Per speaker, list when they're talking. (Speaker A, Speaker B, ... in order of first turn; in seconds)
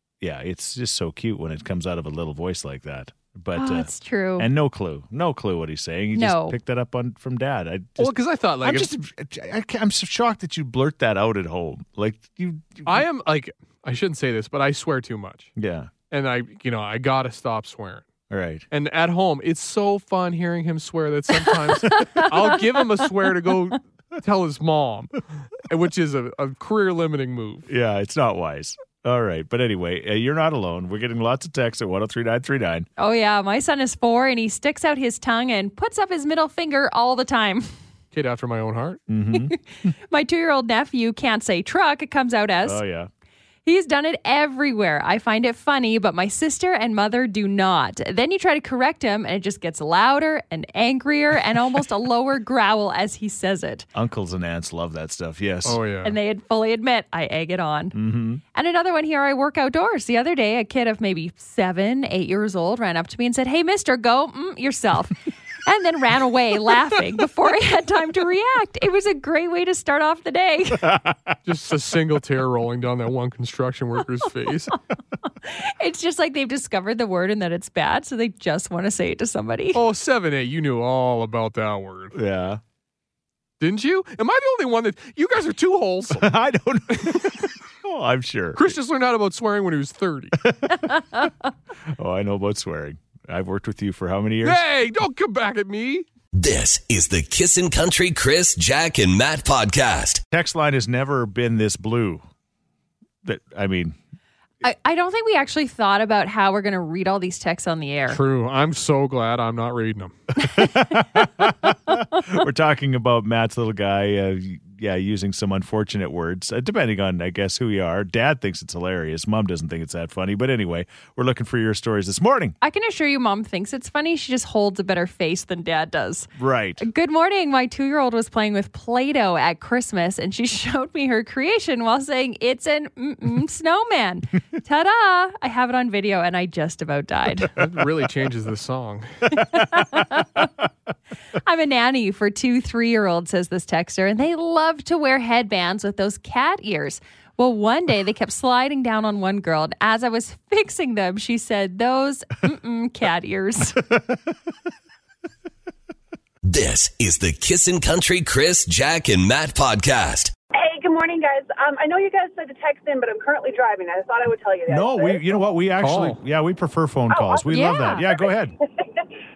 Speaker A: 0.2-13.1, 15.6-15.9, 18.3-18.6, 27.7-32.9, 39.1-39.9, 42.6-43.1, 54.0-55.8, 57.9-58.4, 70.8-71.3, 82.1-82.6, 86.1-88.8, 90.4-91.3, 91.9-94.6, 100.3-102.2, 103.2-104.0, 110.4-122.6, 126.4-126.8, 164.7-168.6
Speaker B: 3.5-4.5, 6.2-6.6, 21.9-22.3, 33.0-37.7, 39.3-42.8, 43.6-53.9, 56.0-58.0, 58.5-70.9, 75.4-79.8, 90.8-91.3, 104.6-108.2, 122.6-137.5, 139.3-140.5, 141.4-153.8, 167.5-168.0
Speaker C: 8.0-8.9, 12.9-15.5, 16.1-18.1, 18.7-27.7, 38.1-39.0, 55.6-56.2, 71.5-74.8, 79.7-82.2, 83.6-86.3, 86.9-87.5, 88.6-90.4, 94.4-96.1, 108.1-110.2, 137.6-139.3, 165.8-166.2
Speaker D: 96.3-100.2, 156.4-160.3
Speaker E: 160.5-165.4, 167.1-169.1